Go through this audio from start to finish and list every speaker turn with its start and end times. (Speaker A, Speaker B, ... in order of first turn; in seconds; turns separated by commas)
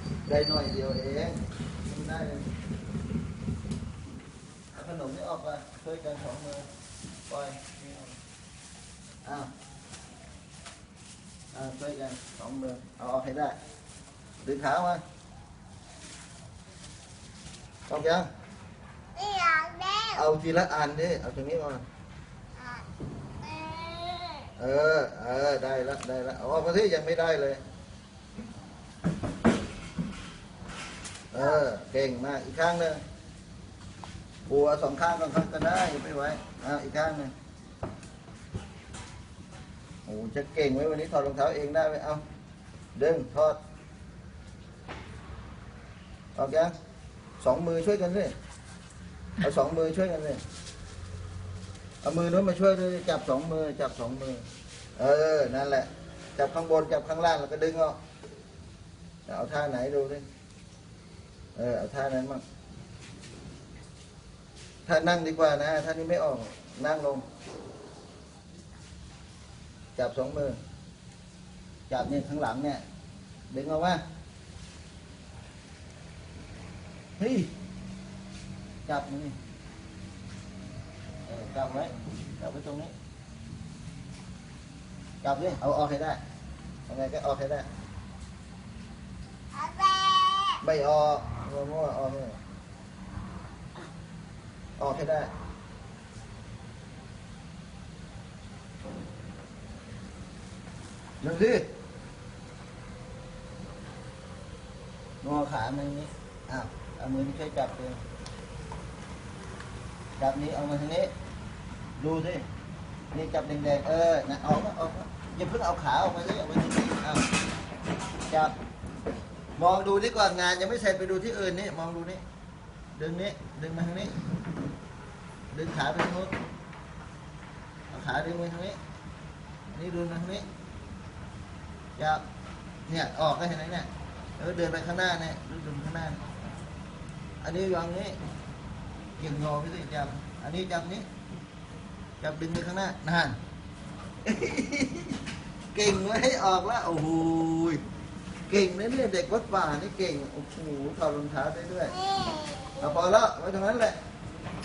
Speaker A: 0.2-2.5, Speaker A: 4.7-6.7, Speaker A: 7.3-8.1, Speaker A: 9.2-9.5, Speaker A: 11.5-13.6, Speaker A: 14.4-15.0, Speaker A: 17.9-18.3, Speaker B: 19.1-20.2, Speaker A: 20.1-21.8, Speaker B: 22.6-22.9, Speaker B: 23.4-24.5, Speaker A: 24.6-27.6, Speaker A: 31.3-33.0, Speaker A: 34.5-37.3, Speaker A: 40.0-42.2, Speaker A: 42.9-43.6, Speaker A: 46.3-46.7, Speaker A: 47.4-48.3, Speaker A: 49.4-50.4, Speaker A: 52.0-54.5, Speaker A: 55.0-58.0, Speaker A: 59.3-60.2, Speaker A: 61.5-62.4, Speaker A: 64.8-67.2, Speaker A: 69.9-70.6, Speaker A: 71.9-72.8, Speaker A: 73.5-74.0, Speaker A: 77.2-77.5, Speaker A: 78.9-79.3, Speaker A: 81.2-82.9, Speaker A: 85.2-86.2, Speaker A: 86.9-87.7, Speaker B: 89.5-90.6, Speaker A: 90.6-92.4, Speaker A: 94.8-95.3, Speaker A: 101.2-101.7, Speaker A: 105.2-108.0, Speaker A: 110.2-111.1, Speaker A: 112.0-112.5, Speaker A: 113.1-117.2, Speaker A: 119.6-122.2, Speaker A: 122.9-124.1, Speaker A: 125.5-126.3, Speaker A: 127.9-128.8, Speaker A: 129.7-130.4, Speaker A: 132.0-132.2, Speaker A: 132.9-136.2, Speaker A: 137.4-138.2, Speaker A: 139.2-141.1, Speaker A: 142.2-143.4, Speaker A: 144.2-145.2, Speaker A: 145.7-147.8, Speaker A: 148.5-152.0, Speaker B: 152.0-152.8, Speaker A: 152.8-153.9